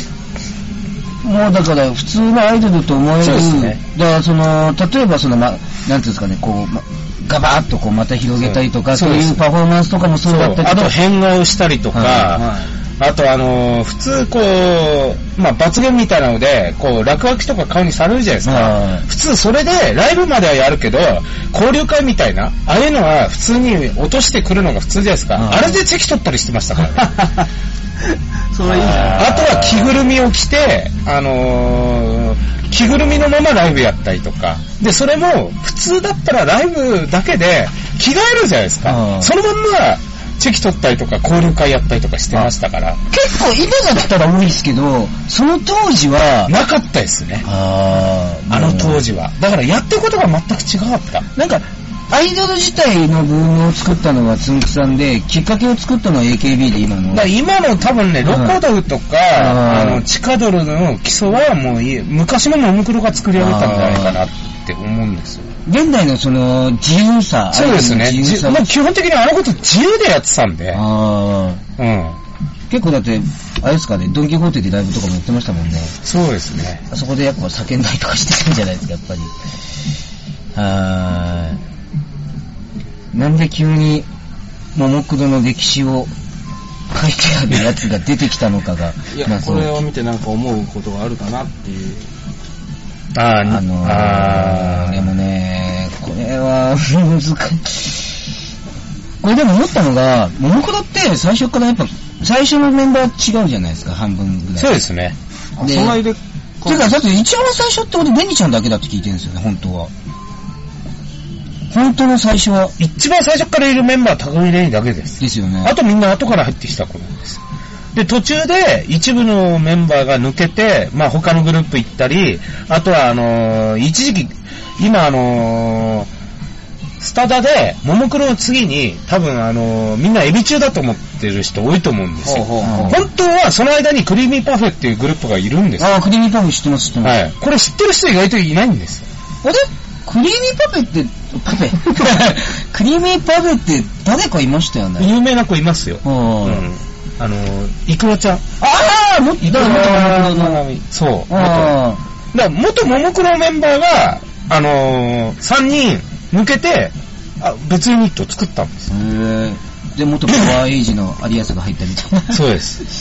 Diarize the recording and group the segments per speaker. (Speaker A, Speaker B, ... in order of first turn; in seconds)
Speaker A: 1.2-10.9, 11.9-12.3, 18.4-19.1, 25.4-25.8, 28.9-29.5, 38.8-39.3, 43.1-46.6, 47.4-49.0, 51.4-57.3, 58.2-58.6, 59.3-60.1, 63.4-64.2, 65.7-68.7, 70.7-71.6, 72.7-76.0, 76.9-79.3, 80.5-81.6, 83.1-84.1, 84.8-86.1, 86.9-89.8, 93.5-98.2, 99.2-104.8, 105.6-106.0, 106.7-109.9, 111.7-112.8, 115.2-115.8, 132.6-133.0, 135.8-137.2, 139.4-145.1, 146.0-146.7, 148.6-150.7, 151.3-152.0, 158.9-162.6
Speaker B: 3.2-3.8, 8.4-9.4, 10.2-27.3, 28.8-43.0, 46.5-47.5, 48.5-51.3, 57.1-65.5, 67.5-70.8, 71.8-72.2, 76.0-76.8, 93.2-95.1, 104.6-105.2, 112.8-117.4, 117.9-126.1, 127.0-135.9, 137.0-139.1, 145.0-148.6, 149.4-151.8, 152.3-158.9, 162.3-162.8
Speaker C: 12.3-12.7, 26.9-27.5, 28.1-29.7, 89.1-92.1, 105.6-107.0, 132.2-133.0